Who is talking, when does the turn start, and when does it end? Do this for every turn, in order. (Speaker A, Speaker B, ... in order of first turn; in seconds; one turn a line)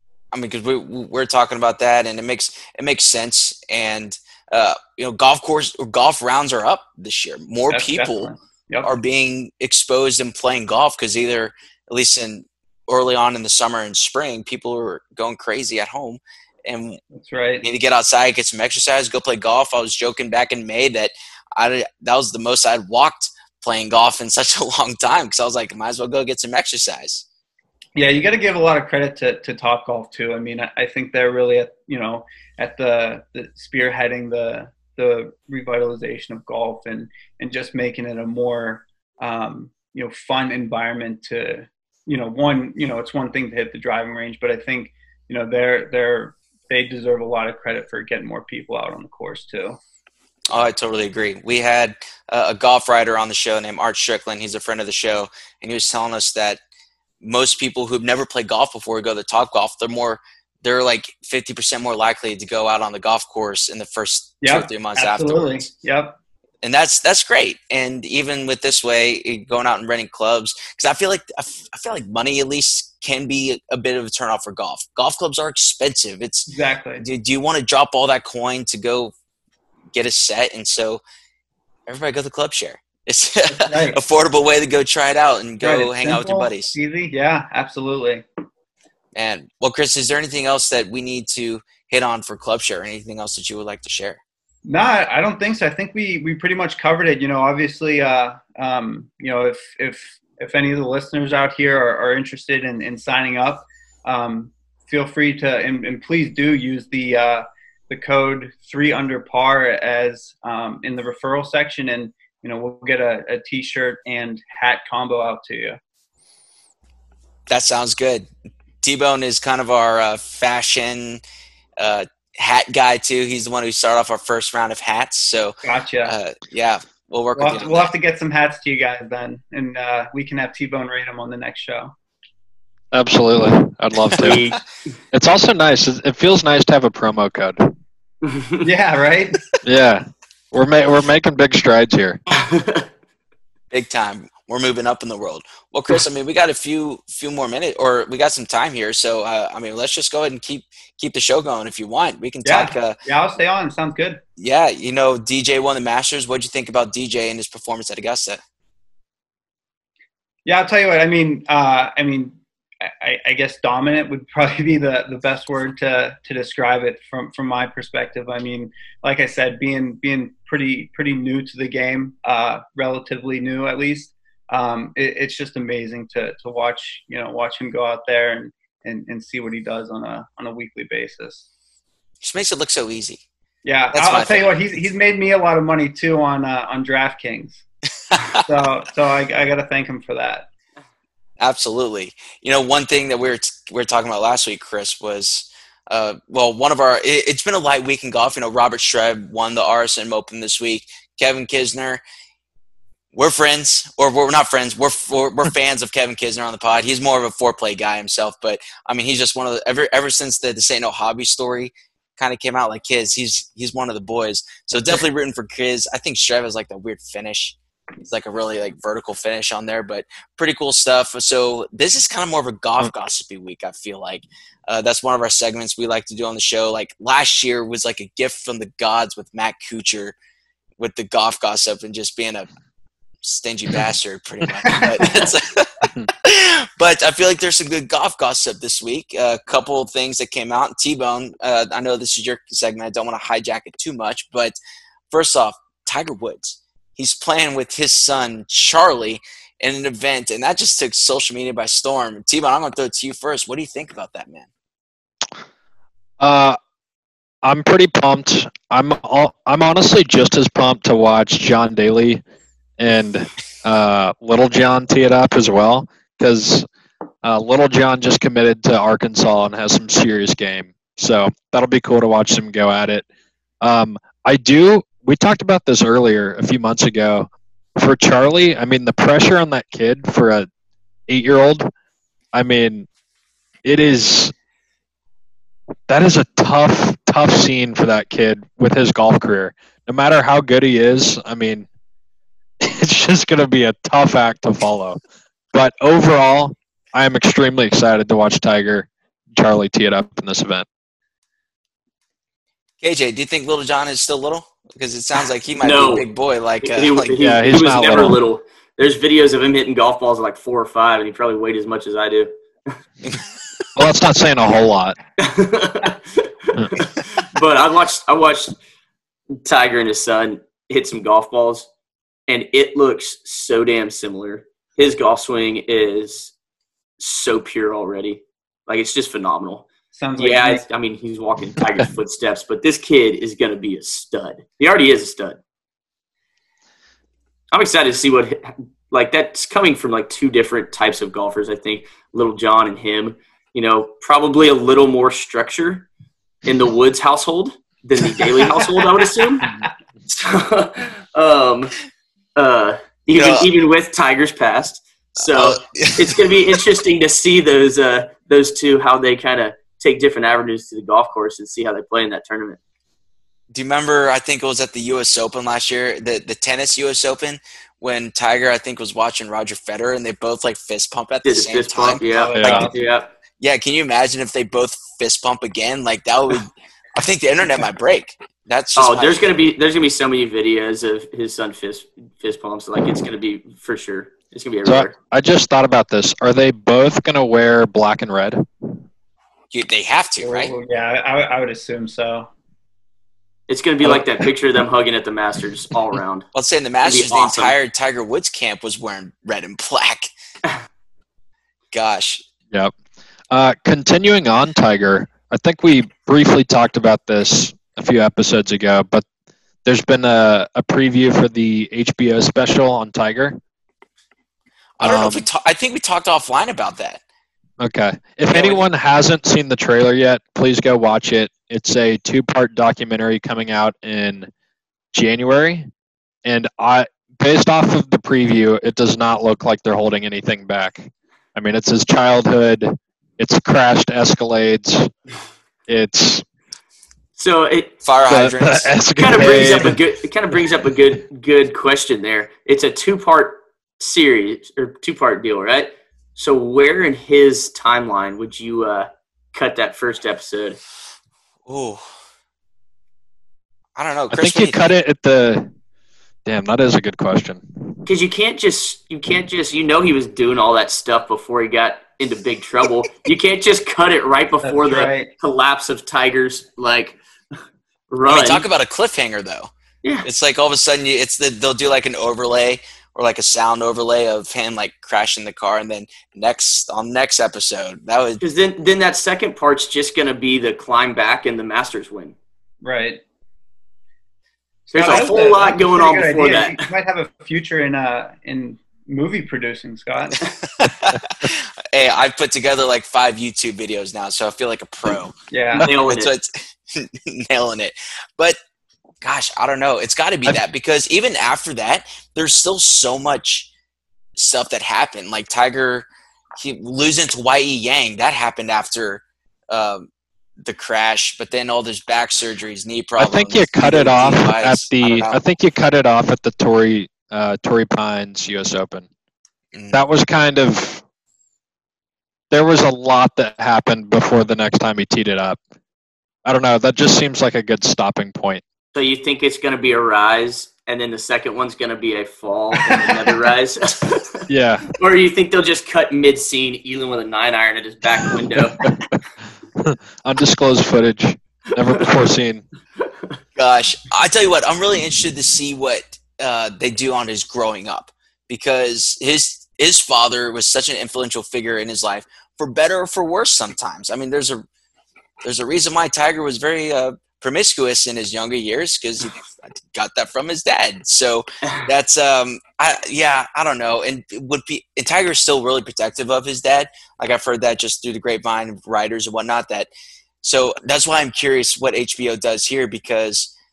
Speaker A: 0.3-8.3
Speaker B: 7.7-8.9
Speaker A: 8.8-17.0
Speaker B: 17.1-17.6
Speaker A: 17.6-27.2
Speaker B: 27.9-49.8
Speaker A: 50.5-56.6
Speaker A: 57.2-65.7
Speaker B: 64.4-66.2
Speaker A: 66.6-79.1
Speaker B: 76.5-77.0
Speaker A: 79.9-81.0
Speaker A: 81.9-86.8
Speaker B: 83.5-84.0
Speaker B: 85.6-88.2
Speaker A: 89.2-94.2
Speaker B: 94.7-115.8
Speaker A: 117.5-118.3
Speaker A: 118.8-121.2
Speaker A: 121.8-127.9
Speaker B: 125.6-126.1
Speaker B: 127.3-131.9
Speaker C: 132.9-134.6
Speaker A: 134.1-134.5
Speaker D: 134.2-134.6
Speaker C: 135.1-137.7
Speaker D: 138.2-138.7
Speaker B: 138.6-139.4
Speaker C: 139.6-142.2
Speaker D: 142.3-142.9
Speaker A: 143.7-153.0
Speaker B: 152.4-154.2
Speaker A: 154.4-158.4
Speaker B: 160.4-181.5
Speaker A: 182.2-183.2
Speaker B: 183.6-187.6
Speaker A: 183.9-184.5
Speaker B: 188.3-190.5
Speaker A: 191.4-202.0
Speaker A: 203.1-230.2
Speaker A: 230.8-232.5
Speaker A: 233.2-244.6
Speaker A: 245.1-254.5
Speaker C: 256.2-256.6
Speaker C: 257.4-262.2
Speaker C: 262.8-266.7
Speaker C: 267.2-273.1
Speaker C: 273.6-280.5
Speaker C: 281.1-281.7
Speaker C: 282.3-282.9
Speaker C: 283.6-284.3
Speaker C: 285.9-291.7
Speaker C: 292.6-295.0
Speaker C: 295.5-300.7
Speaker A: 302.8-307.2
Speaker D: 305.6-306.1
Speaker D: 306.6-312.8
Speaker C: 307.2-308.2
Speaker C: 313.8-315.0
Speaker D: 315.2-318.6
Speaker C: 316.6-316.9
Speaker D: 319.4-321.7
Speaker D: 322.3-326.3
Speaker D: 327.0-335.4
Speaker B: 329.9-330.6
Speaker D: 337.5-345.9
Speaker D: 346.4-349.5
Speaker D: 350.1-351.8
Speaker D: 352.4-362.6
Speaker A: 353.1-353.5
Speaker A: 355.2-356.2
Speaker A: 363.5-372.0
Speaker D: 371.2-373.1
Speaker B: 372.0-372.8
Speaker C: 372.4-372.7
Speaker A: 373.4-379.3
Speaker D: 378.8-385.0
Speaker C: 384.7-388.4
Speaker A: 389.5-390.5
Speaker B: 390.2-392.3
Speaker D: 393.5-396.3
Speaker C: 393.9-394.3
Speaker A: 396.3-400.1
Speaker D: 396.8-397.6
Speaker A: 401.7-402.2
Speaker C: 403.3-409.1
Speaker C: 409.6-413.4
Speaker A: 414.8-417.0
Speaker C: 414.8-415.2
Speaker C: 417.6-424.3
Speaker A: 418.3-418.6
Speaker C: 424.9-425.7
Speaker C: 426.2-434.9
Speaker C: 435.7-436.2
Speaker D: 437.2-437.8
Speaker A: 437.8-438.7
Speaker C: 438.1-439.8
Speaker D: 439.0-450.6
Speaker A: 451.4-451.8
Speaker A: 453.8-454.7
Speaker C: 454.1-455.5
Speaker C: 456.3-457.8
Speaker D: 457.9-467.0
Speaker B: 464.4-465.1
Speaker D: 467.9-468.4
Speaker A: 468.1-469.5
Speaker A: 470.0-478.2
Speaker D: 478.2-482.2
Speaker B: 482.6-483.0
Speaker B: 484.7-490.3
Speaker D: 484.7-486.6
Speaker A: 490.4-495.1
Speaker B: 495.3-495.7
Speaker D: 495.6-496.1
Speaker A: 495.8-498.4
Speaker A: 499.0-503.5
Speaker A: 504.2-505.9
Speaker A: 506.4-509.9
Speaker A: 510.4-515.2
Speaker C: 513.0-518.9
Speaker A: 519.5-519.8
Speaker C: 519.7-520.8
Speaker C: 522.3-525.4
Speaker C: 526.2-528.4
Speaker D: 528.7-538.8
Speaker C: 534.3-534.7
Speaker C: 539.6-542.4
Speaker A: 543.4-554.5
Speaker A: 555.2-569.7
Speaker A: 570.2-573.3